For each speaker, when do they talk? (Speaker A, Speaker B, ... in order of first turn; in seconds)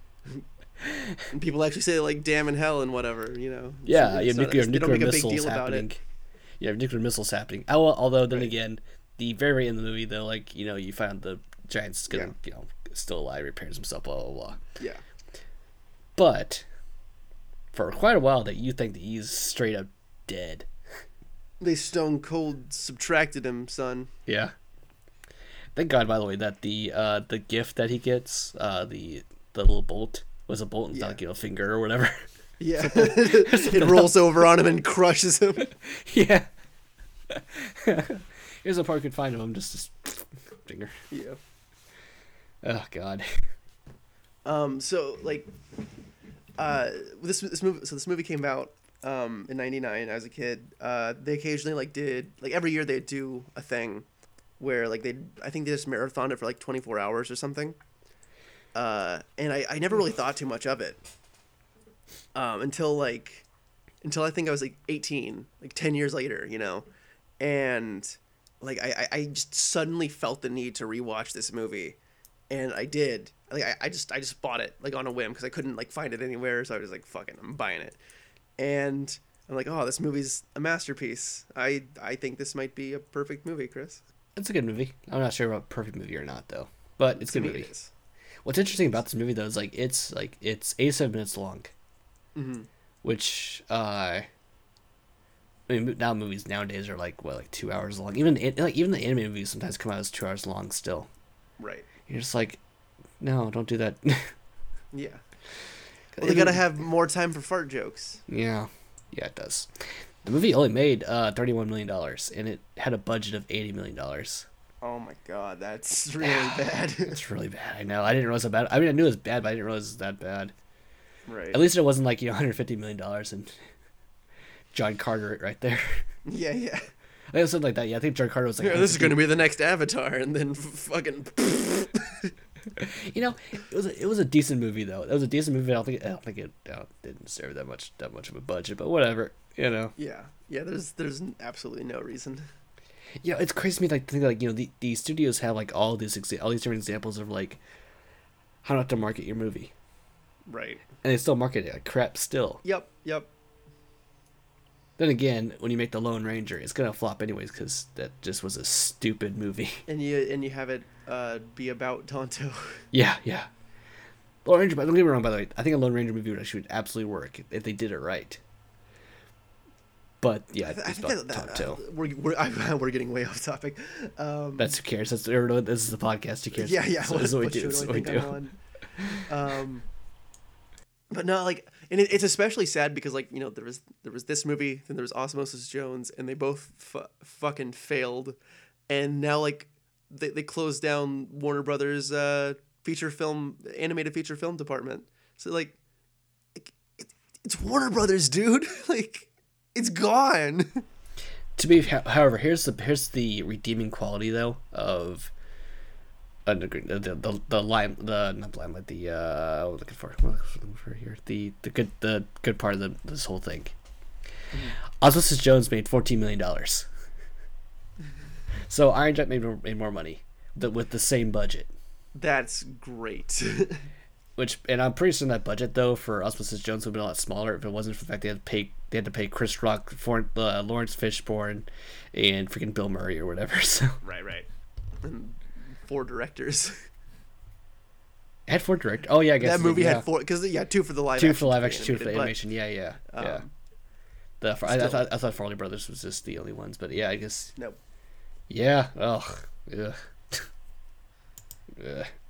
Speaker A: 0.8-1.2, 3.9-6.0, 6.6-14.6, 16.2-16.6, 17.7-20.7, 24.3-24.5, 25.8-32.2, 32.8-34.1, 35.6-36.5, 37.3-41.0, 42.6-43.3, 84.4-87.7, 88.4-91.7, 93.0-94.3, 95.7-101.1, 102.1-102.6, 103.2-104.3, 106.2-106.7, 108.3-114.5, 116.2-120.5, 121.5-123.5, 124.7-126.0, 127.3-129.2, 132.8-139.9, 143.2-147.6, 148.6-149.7, 151.0-152.6, 155.0-159.8, 162.9-163.5, 164.4-168.4, 170.2-171.8, 174.6-178.4, 201.6-205.3, 206.5-213.7, 214.9-216.9, 218.7-221.7, 224.4-234.0, 238.5-240.1, 241.2-243.4, 244.4-247.5, 248.5-250.5, 251.7-252.1
Speaker B: 1.3-5.9, 21.6-24.1, 30.9-31.2, 32.6-35.6, 41.1-41.4, 44.5-45.5, 46.6-54.1, 54.6-57.8, 58.8-61.0, 62.4-63.5, 64.0-66.9, 67.4-72.0, 72.5-78.0, 78.6-84.0, 87.1-87.9, 92.3-92.7, 101.6-101.9, 104.9-105.2, 106.2-108.2, 114.8-117.2, 121.3-121.6, 126.3-126.8, 128.6-132.3, 140.0-142.4, 150.5-150.8, 152.6-153.3, 159.9-162.8, 170.6-174.7, 176.5-179.9, 181.1-188.4, 188.9-195.8, 196.6-200.8, 222.2-223.8, 234.0-234.5, 235.0-236.8, 239.4-242.4, 243.1-243.5, 244.7-245.1